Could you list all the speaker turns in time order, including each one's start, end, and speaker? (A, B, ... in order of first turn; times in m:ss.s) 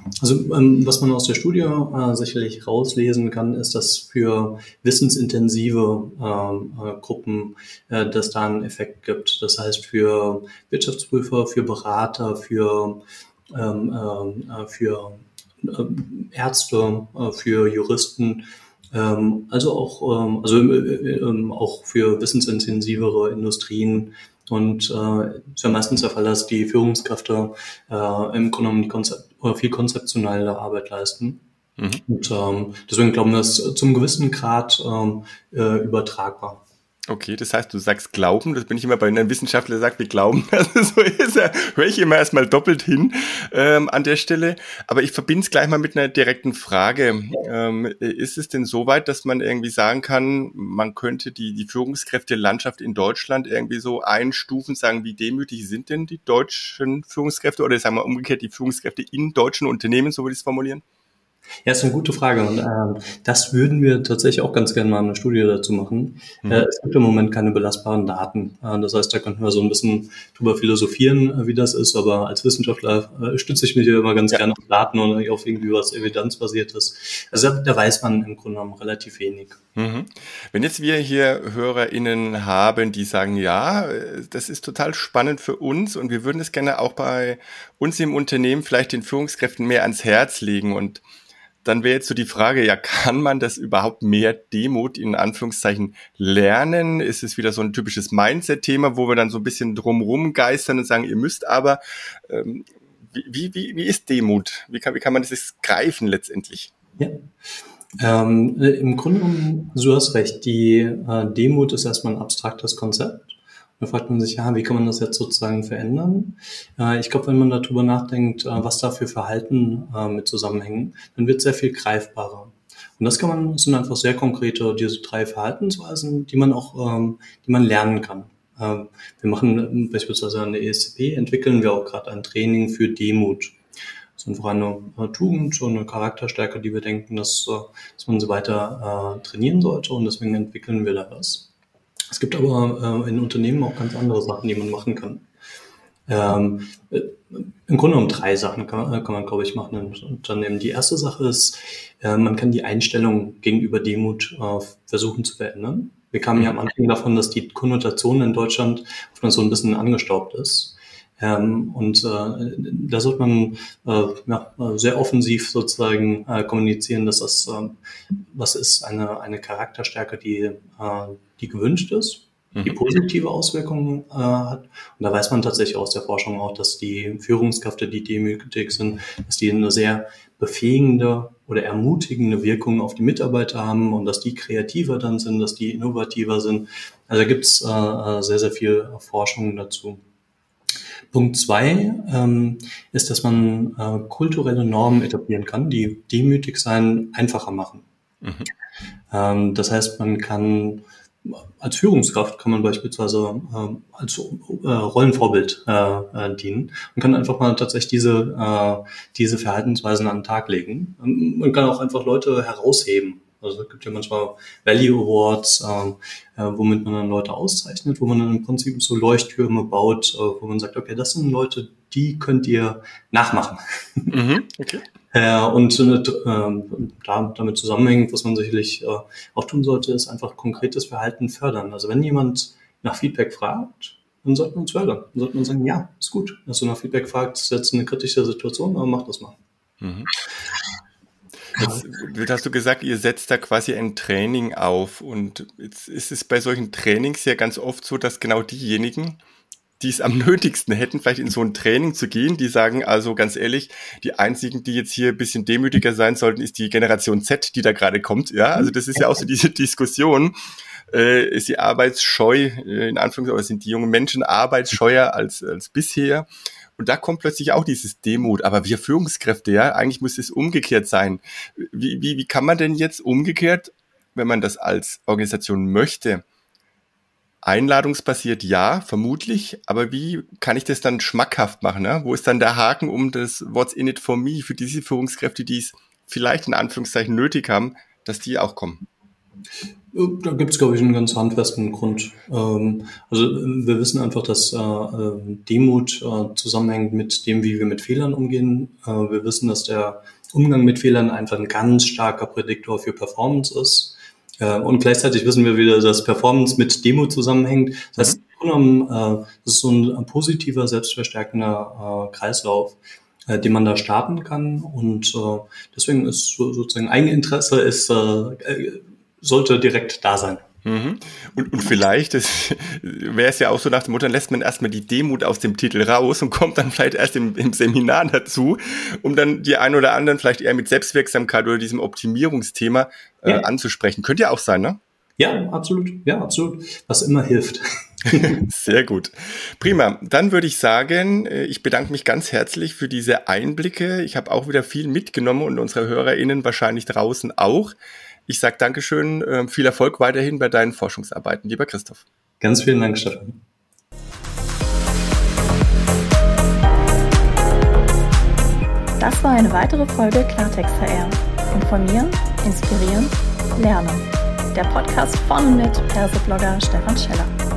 0:00.2-0:31.4 A
0:31.8-0:32.0 B
0:32.1-0:36.6 A
0:37.1-1:00.8 B
1:01.6-1:19.6 A
1:19.8-1:31.0 B
1:31.6-1:46.7 B
1:48.0-2:13.6 A
2:14.2-2:21.5 A
2:22.1-2:25.3 A
2:26.1-2:47.8 A
2:48.3-3:10.0 A
3:11.1-3:17.9 A
3:18.2-3:18.5 B
3:19.1-3:44.1 A
3:44.1-3:44.8 B
3:45.1-3:59.4 A
3:59.8-4:00.1 B
4:01.6-4:09.2 B
4:09.8-4:20.4 B
4:20.9-4:26.3 B
4:26.8-4:36.2 B
4:37.4-4:48.8 B
4:49.9-5:20.4 A
5:20.6-5:34.8 B
5:35.2-5:38.4 A
5:38.4-5:47.7 B
5:48.3-5:52.0 B
5:52.4-5:53.4 A
5:59.0-6:07.4 C